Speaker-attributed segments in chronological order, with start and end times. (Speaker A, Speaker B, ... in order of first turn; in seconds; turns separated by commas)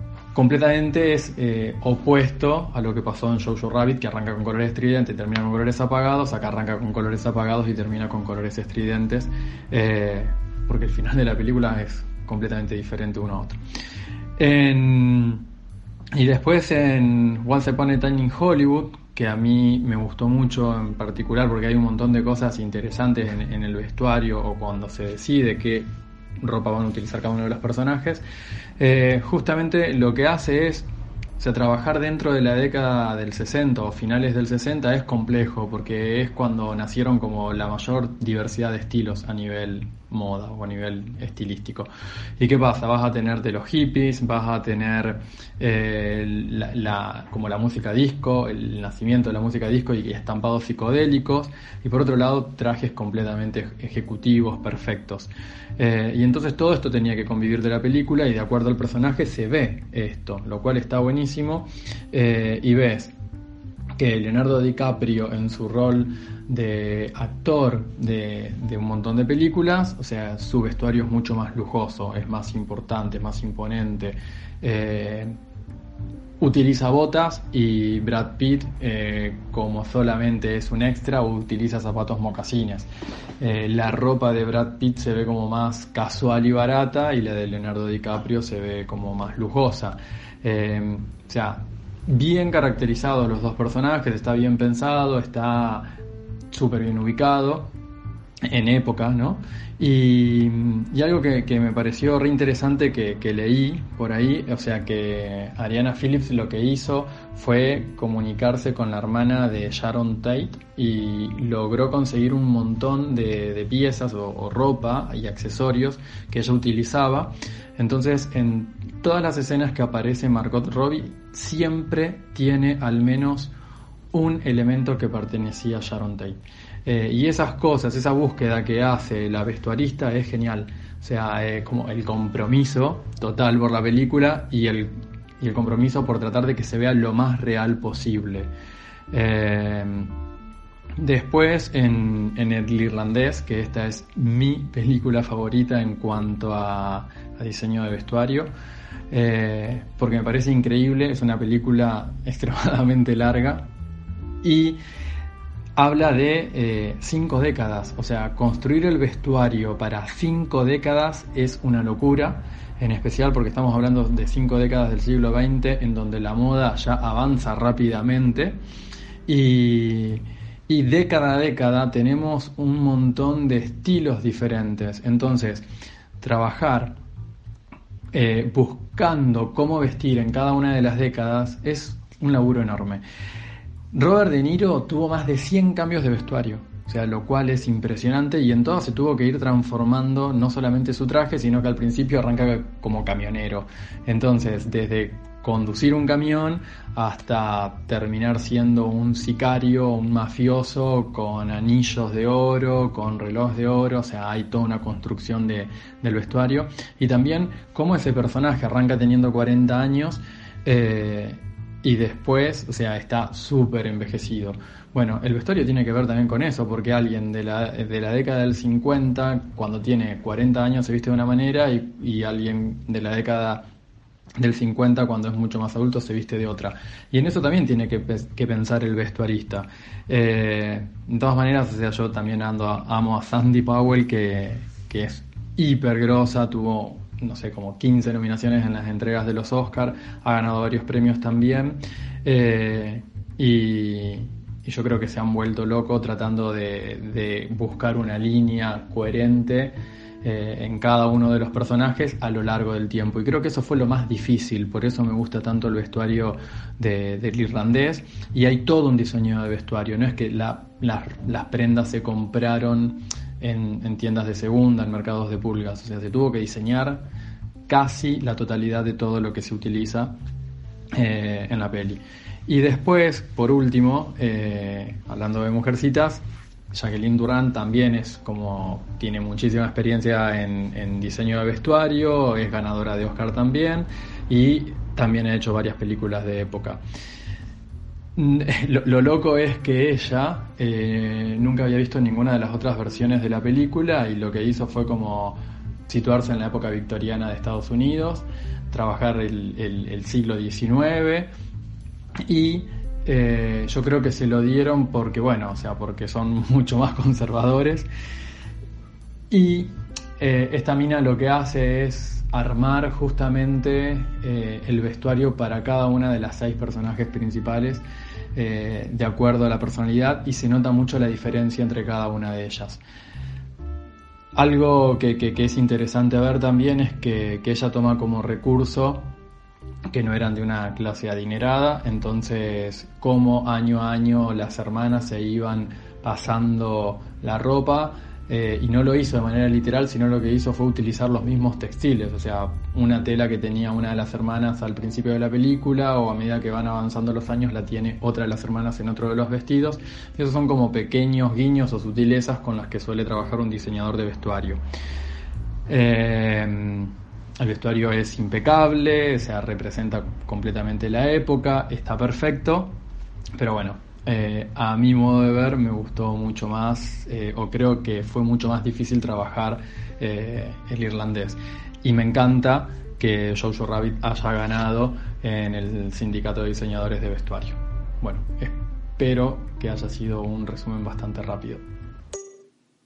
Speaker A: 0.3-13.6, Speaker A: 14.4-15.4, Speaker A: 16.2-25.9, Speaker A: 26.4-28.2, Speaker A: 28.8-30.9, Speaker A: 31.4-63.1, Speaker A: 64.0-75.3, Speaker A: 76.4-82.9, Speaker A: 83.4-95.9, Speaker A: 96.5-97.7, Speaker A: 98.5-123.5, Speaker A: 124.1-138.5, Speaker A: 139.1-140.1, Speaker A: 141.0-148.5, Speaker A: 149.1-153.7, Speaker A: 154.4-154.8, Speaker A: 155.8-168.6, Speaker A: 169.3-175.7, Speaker A: 176.2-176.9, Speaker A: 178.1-183.0, Speaker A: 183.9-223.7, Speaker A: 224.4-267.0, Speaker A: 267.7-270.1, Speaker A: 270.9-286.8, Speaker A: 288.2-301.3, Speaker A: 302.3-307.9, Speaker A: 309.3-317.8, Speaker A: 318.4-322.8, Speaker A: 324.4-329.1, Speaker A: 329.9-354.6, Speaker A: 355.7-362.8, Speaker A: 363.4-381.6